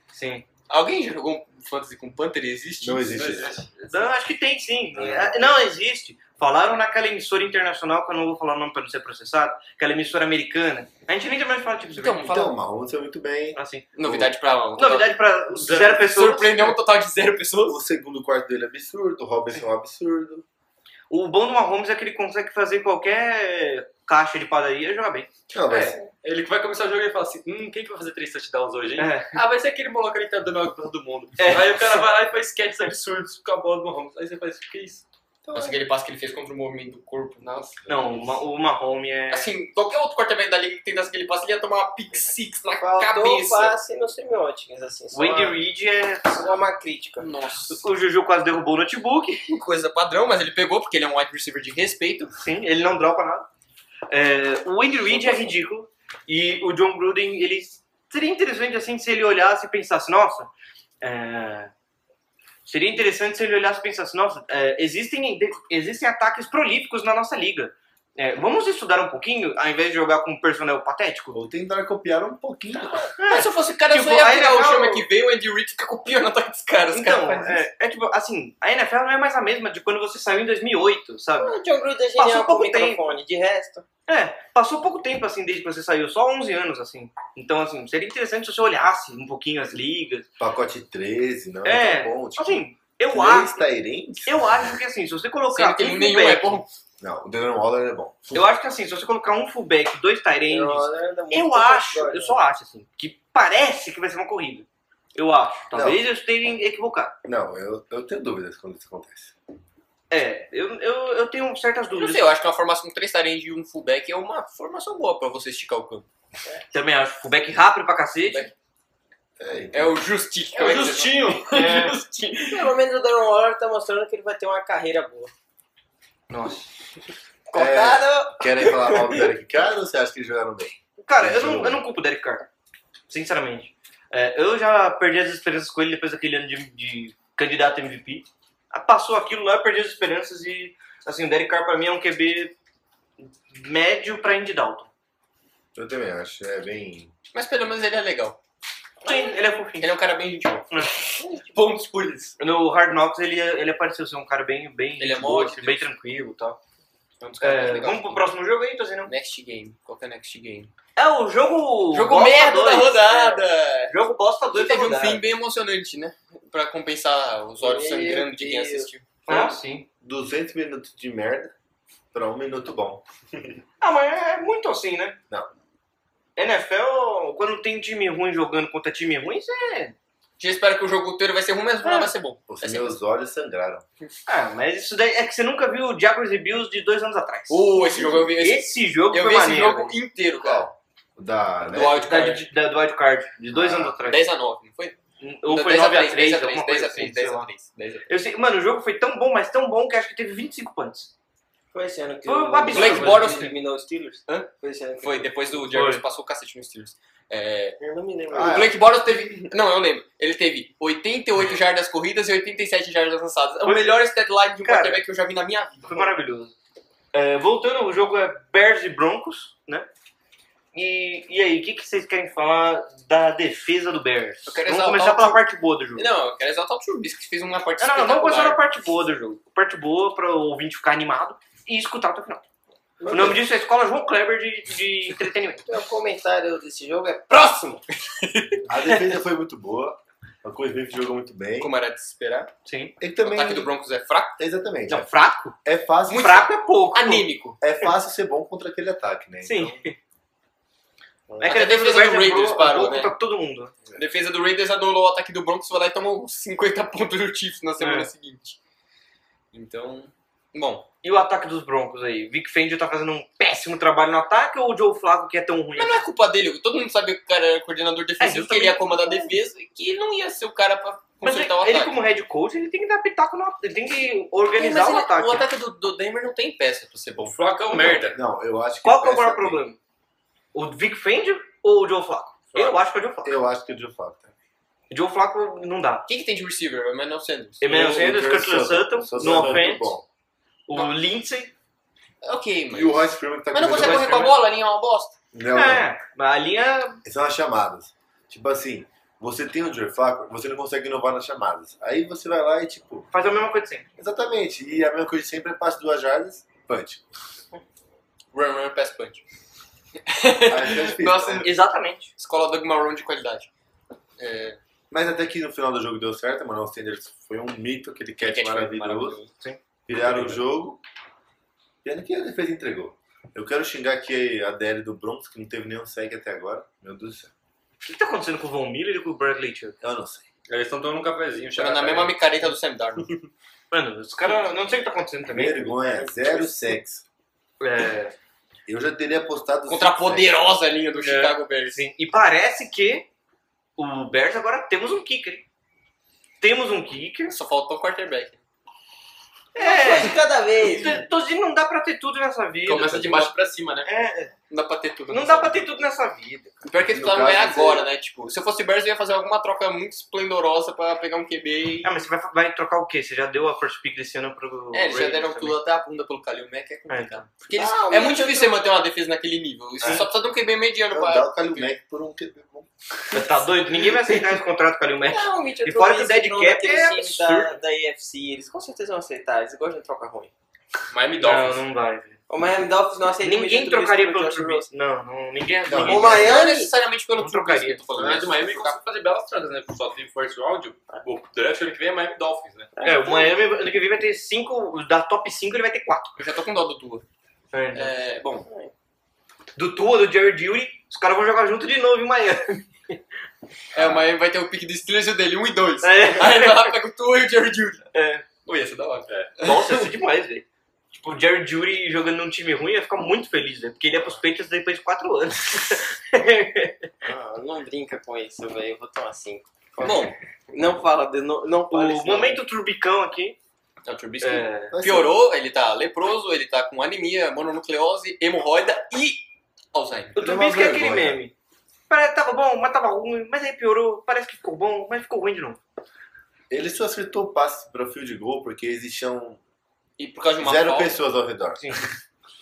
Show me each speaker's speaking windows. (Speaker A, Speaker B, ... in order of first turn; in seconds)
Speaker A: 0.1-0.4, 3.8-12.5, 13.6-13.9, 14.8-16.8, 21.1-25.3, 29.0-29.4, 31.4-32.0, 37.9-39.5, 45.1-46.5, 47.7-49.5, 52.4-53.5, 54.1-60.5, 61.0-61.7, 62.6-71.4, 73.2-75.0, 76.9-81.5, 82.2-83.2, 84.1-90.3, 91.6-93.6, 94.2-96.6, 98.3-107.2, 110.1-112.4, 116.7-118.5, 121.5-121.9, 126.3-126.7, 131.0-132.5, 133.1-142.5, 143.5-144.9, 149.0-149.9, 150.7-151.1, 152.4-156.6, 157.4-159.1, 160.9-165.3, 169.3-169.9, 173.8-175.2, 176.3-179.9, 184.3-189.9, 192.0-194.2, 195.2-197.5, 198.1-201.1, 202.2-203.3, 205.7-206.0, 213.6-214.0, 214.6-215.0, 215.9-216.5, 217.1-219.9, 220.7-226.1, 227.8-232.4, 233.1-235.6, 242.7-242.9, 244.9-245.6, 246.1-247.3, 249.4-249.9, 251.4-253.7, 257.8-258.1, 261.0-266.0, 268.2-269.3, 271.2-275.4, 278.8-279.8, 280.5-283.4, 284.9-286.1, 287.6-290.0, 290.7-291.5, 293.7-294.4, 295.5-297.0, 303.1-303.8, 311.4-312.1, 327.8-329.8, 333.7-336.5, 337.6-338.1, 341.7-343.1, 343.8-345.4, 346.4-347.4, 349.5-353.3, 353.8-354.3, 355.1-356.6, 361.8-365.6, 366.9-367.2, 369.8-370.1, 373.1-377.6, 381.2-382.2, 383.2-386.5, 387.2-387.9, 392.8-396.2, 397.5-397.9, 399.6-402.9, 405.8-406.7, 407.9-408.3, 409.4-416.9, 421.7-423.4, 424.2-424.7, 430.1-431.3, 431.9-435.6
Speaker B: 0.7-3.5, 12.0-12.5, 13.9-17.8, 35.5-37.5, 39.3-43.7, 47.2-47.8, 49.5-52.3, 55.1-55.5, 73.2-77.6, 95.5-96.7, 111.9-116.0, 118.2-118.5, 119.7-122.7, 147.3-148.4, 149.8-152.4, 155.0-155.9, 157.2-158.3, 159.1-160.7, 161.9-163.9, 164.5-169.5, 180.4-183.0, 187.5-190.7, 191.7-192.4, 194.1-198.1, 202.7-203.5, 205.0-207.8, 208.4-216.1, 224.4-225.4, 225.9-228.6, 238.2-238.6, 241.6-242.5, 243.2-244.4, 246.1-247.6, 251.4-253.1, 253.9-258.6, 259.5-260.9, 265.8-272.0, 274.5-277.4, 286.1-287.7, 289.3-289.6, 292.2-295.1, 308.3-309.2, 310.1-311.5, 312.2-313.5, 314.2-314.6, 318.2-319.3, 331.6-333.1, 339.7-341.8, 347.3-348.4, 354.5-355.6, 356.6-362.0, 364.7-371.7, 380.9-381.4, 385.9-388.8, 396.2-397.0, 397.7-398.5, 403.7-407.8, 408.4-409.8, 419.8-420.1, 423.8-430.1, 440.0-441.0
Speaker C: 2.8-3.6, 12.2-14.3, 17.7-20.4, 25.5-26.0, 71.3-73.0, 90.4-94.8, 97.0-98.5, 105.7-106.0, 107.2-109.3, 119.4-120.0, 127.5-131.8, 145.7-147.1, 170.0-171.5, 172.1-173.0, 182.5-183.8, 190.4-192.2, 193.5-194.0, 208.3-208.8, 233.0-233.4, 238.7-241.7, 243.0-243.7, 244.4-245.1, 245.6-246.4, 247.6-249.8, 251.3-251.6, 278.0-279.6, 283.2-284.3, 287.7-290.0, 292.7-294.3, 295.3-295.9, 297.0-303.1, 304.0-307.0, 310.5-311.5, 314.9-319.2, 319.9-320.8, 321.8-327.3, 329.8-330.2, 335.3-337.0, 338.7-340.3, 356.9-357.9, 370.9-372.7, 385.7-386.5, 424.7-425.1, 430.2-431.2, 436.5-439.4, 440.4-441.7
Speaker D: 3.1-3.7, 25.7-35.0, 37.4-38.1, 120.5-121.7, 277.2-278.2, 320.1-320.4, 330.5-332.4, 341.0-341.3, 352.7-353.9, 380.9-381.6, 387.9-392.8, 409.1-409.4
Speaker E: 42.8-45.5, 46.3-47.3, 81.4-83.8, 100.5-102.4, 122.5-125.3, 127.5-129.2, 151.2-151.4, 167.6-168.9, 201.7-205.3, 207.8-208.7, 233.0-233.3, 235.7-237.8, 349.6-351.0, 367.5-368.6, 375.1-380.3, 382.3-384.7, 385.8-386.7, 392.8-393.4, 398.5-398.7, 417.0-422.4